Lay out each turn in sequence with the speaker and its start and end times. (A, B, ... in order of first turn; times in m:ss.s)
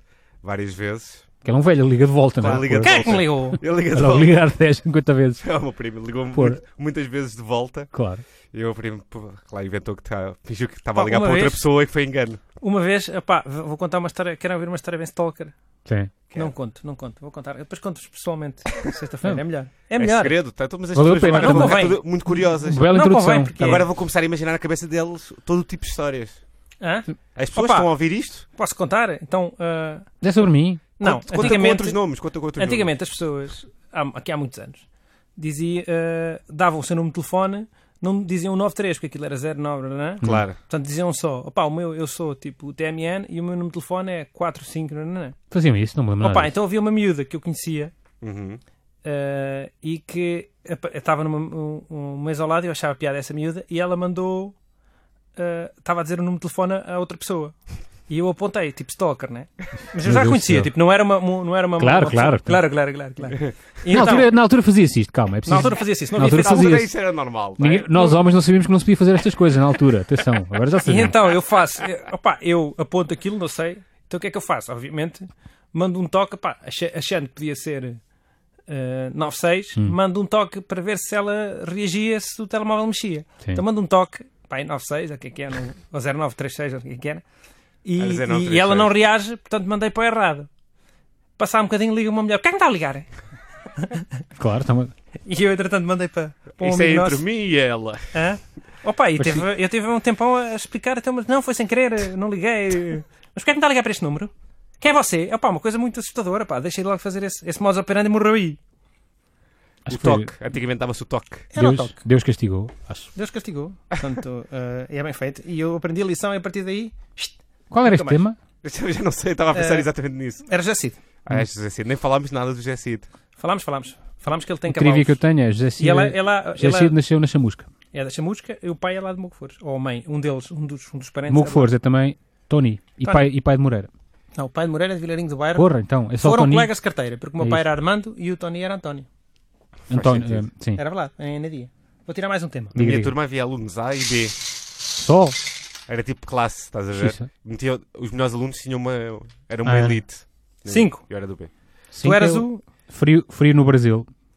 0:00.4-0:01.3 A
0:01.4-0:05.4 B
0:02.4-0:04.3 A
0:02.8-0:03.6 C
0:05.4-0:07.9 A
0:06.3-0:06.6 B
0:07.9-0:08.2 B
0:08.5-0:12.4 A
0:11.0-0:11.6 C
0:12.6-0:15.5 C
0:15.8-0:16.1 B
0:16.3-0:20.4 C
0:20.0-0:22.9 A
0:20.9-0:22.0 B
0:21.2-0:22.0 C
0:22.6-0:23.8 B
0:22.9-0:23.8 C
0:23.6-0:26.4 A
0:26.8-0:27.9 C
0:27.4-0:28.4 A
0:28.4-0:30.2 C
0:30.2-0:30.8 B
0:31.0-0:32.0 C
0:31.0-0:32.9 A
0:32.6-0:34.8 C
0:35.4-0:45.4 C
0:40.2-0:40.6 A
0:45.5-0:46.5 B
0:46.2-0:47.9 C
0:48.2-0:48.6 A
0:49.0-0:54.5 C
0:55.4-0:57.5 C
0:58.1-1:04.3 C
1:00.0-1:00.7 B
1:01.8-1:02.6 B
1:03.9-1:06.9 B
1:05.5-1:06.8 C
1:06.2-1:07.9 A
1:07.6-1:11.1 B
1:07.9-1:08.2 C
1:10.8-1:18.0 C
1:18.7-1:27.2 C
1:27.8-1:30.5 C
1:28.0-1:28.9 A
1:31.4-1:33.1 C
1:33.8-1:34.0 C
1:34.4-1:34.9 B
1:35.2-1:37.2 C
1:36.6-1:38.2 A
1:38.1-1:48.6 C
1:39.2-1:39.4 B
1:49.8-1:50.3 B
1:49.9-1:51.5 A
1:51.5-1:52.0 C
1:51.6-1:53.1 B
1:53.1-1:58.2 C
1:57.7-1:58.4 B
1:58.6-2:00.4 A
1:59.5-1:59.9 C
2:00.4-2:01.0 C
2:01.2-2:03.1 A
2:03.4-2:05.2 C
2:04.7-2:07.7 B
2:05.8-2:07.0 C
2:07.9-2:11.7 C
2:11.3-2:13.9 B
2:14.4-2:19.0 C
2:15.6-2:16.7 B
2:19.9-2:20.8 B
2:19.9-2:20.4 A
2:20.8-2:22.7 C
2:22.7-2:23.1 B
2:22.7-2:24.4 A
2:25.0-2:25.4 B
2:25.9-2:31.5 A
2:26.9-2:27.3 B
2:29.6-2:30.0 B
2:30.7-2:31.0 C
2:31.9-2:34.1 B
2:32.0-2:32.6 C